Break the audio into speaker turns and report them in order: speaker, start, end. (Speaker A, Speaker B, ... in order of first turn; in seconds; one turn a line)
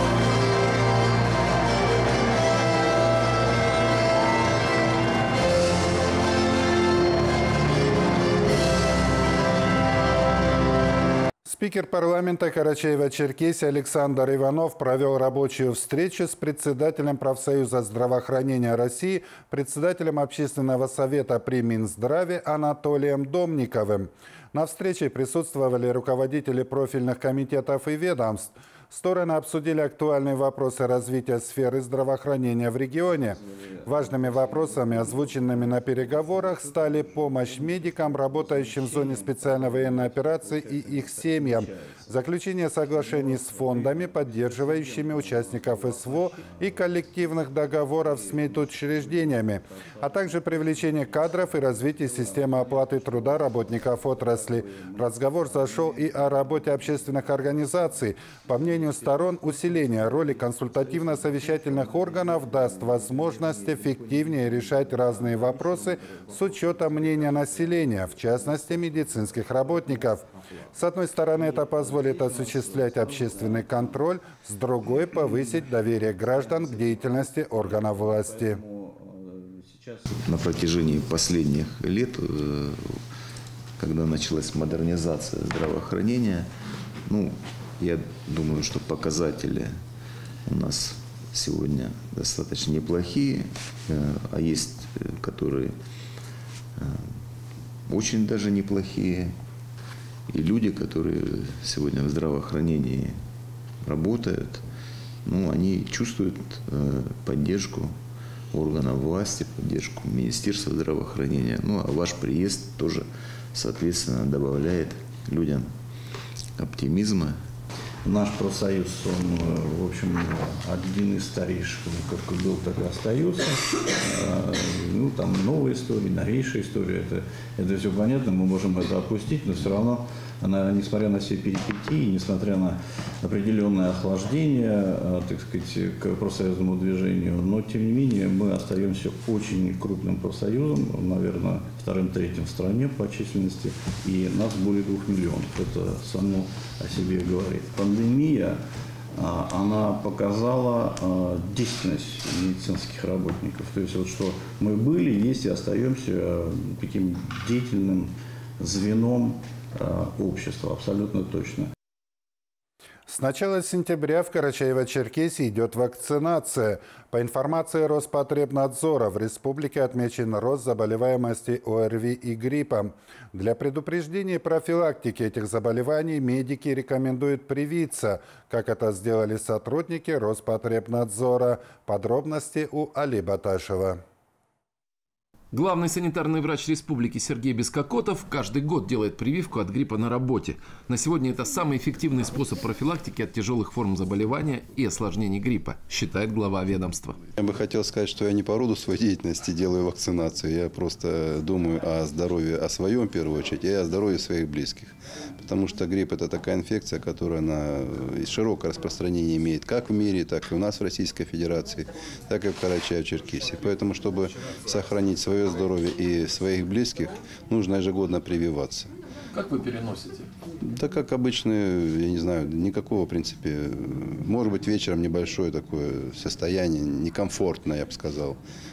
Speaker A: 11.5-78.6
Speaker B: 78.7-80.0
Speaker C: 80.1-83.0
Speaker C: 83.8-86.5
Speaker C: 87.1-89.8
Speaker C: 90.5-95.8
Speaker C: 96.8-97.2
Speaker C: 97.9-99.3
Speaker C: 100.3-103.2
Speaker C: 103.8-104.6
Speaker C: 105.2-108.0
Speaker C: 108.5-115.7
Speaker C: 116.6-117.4
Speaker B: 118.0-148.6
Speaker B: 149.2-161.7
Speaker A: 163.1-184.0
Speaker D: 185.5-197.2
Speaker E: 197.4-218.9
Speaker D: 219.3-220.3
Speaker E: 220.6-228.4